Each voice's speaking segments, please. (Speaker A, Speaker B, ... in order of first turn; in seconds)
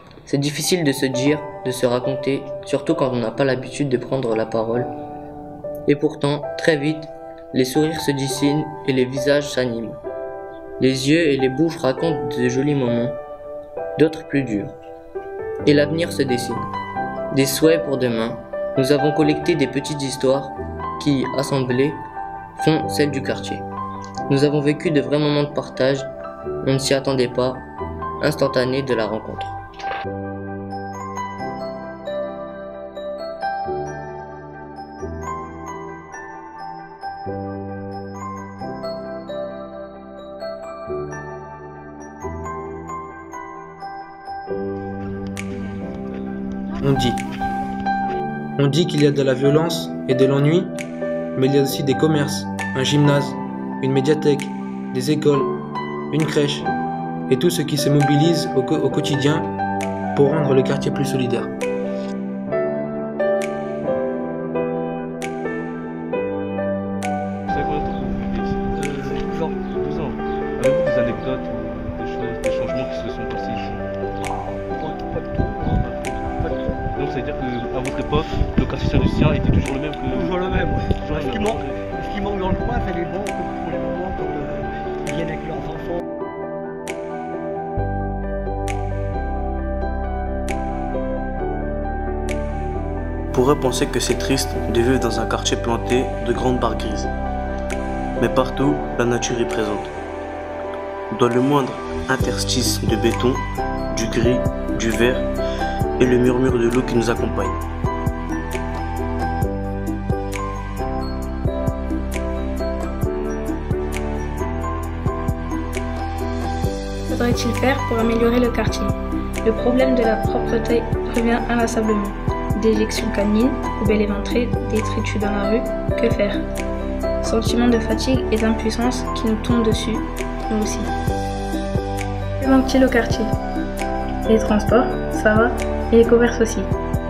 Speaker A: 0.3-4.9, 5.9-10.0, 10.8-13.2, 14.0-14.8, 15.7-16.7, 17.3-22.0, 22.6-23.6, 24.3-26.1, 26.6-27.7, 28.2-29.6
Speaker B: 46.8-47.3, 48.6-50.8, 51.4-56.7, 57.3-59.5, 60.1-61.5
Speaker C: 67.5-68.8, 69.6-73.8, 77.0-81.8
Speaker D: 68.7-69.7, 74.2-76.9, 80.1-86.0
Speaker E: 93.3-97.1, 98.2-99.9, 101.1-105.3, 106.0-107.6
Speaker F: 117.1-126.5, 127.2-130.9, 132.4-133.3, 134.3-136.7